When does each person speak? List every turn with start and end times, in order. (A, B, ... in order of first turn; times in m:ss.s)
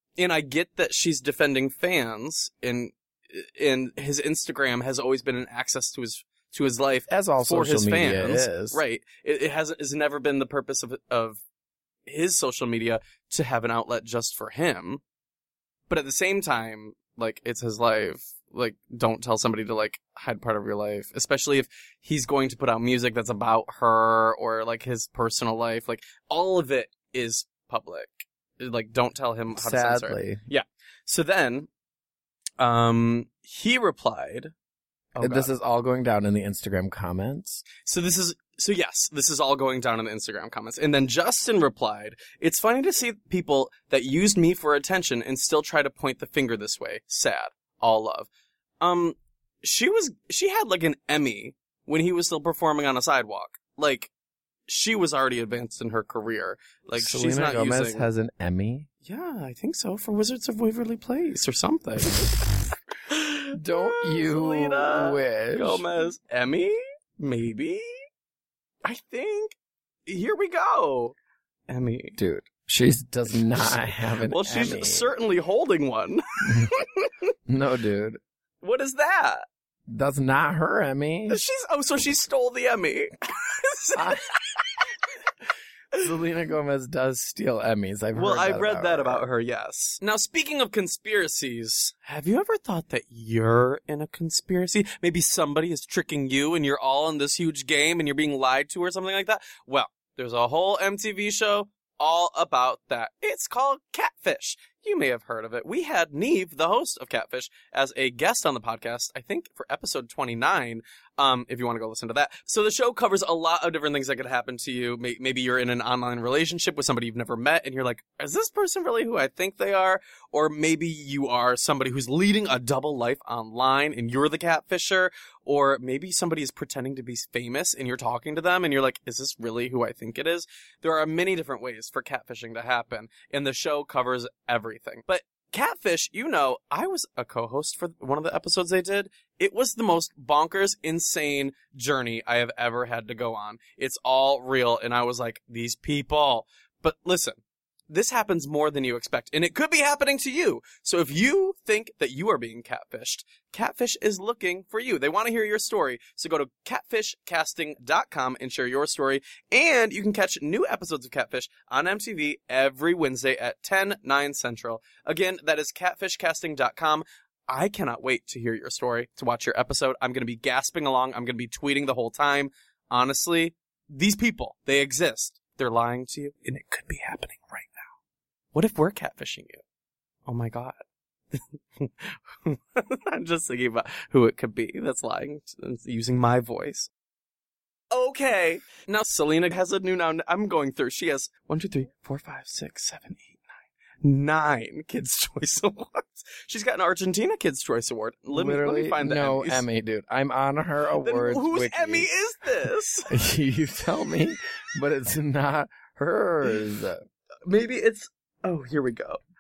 0:00.2-0:11.4 A
0:07.1-0:08.8 B
0:12.0-0:15.0 A
0:15.9-0:31.7 A
0:29.5-0:30.4 B
0:32.6-0:34.5 A
0:35.1-0:35.5 A
0:35.2-0:37.6 B
0:37.8-0:48.3 A
0:48.8-0:54.1 A
0:54.7-0:58.1 A
0:57.0-0:58.9 B
0:59.0-1:02.4 A
1:03.1-1:07.9 A
1:03.6-1:05.8 B
1:08.8-1:09.5 A
1:10.1-1:11.1 A
1:11.7-1:12.2 A
1:12.2-1:15.1 B
1:14.2-1:17.3 A
1:16.4-1:16.8 B
1:17.5-1:18.2 B
1:18.6-1:19.4 A
1:19.9-1:21.4 B
1:21.3-1:24.9 A
1:24.0-1:24.2 B
1:26.0-1:29.2 B
1:28.1-2:57.9 A
2:58.5-2:59.6 A
3:00.2-3:00.7 A
3:01.3-3:06.9 A
3:07.9-3:13.4 A
3:14.0-3:19.6 A
3:18.3-3:22.1 B
3:21.0-3:23.1 A
3:23.1-3:27.0 B
3:27.4-3:29.2 A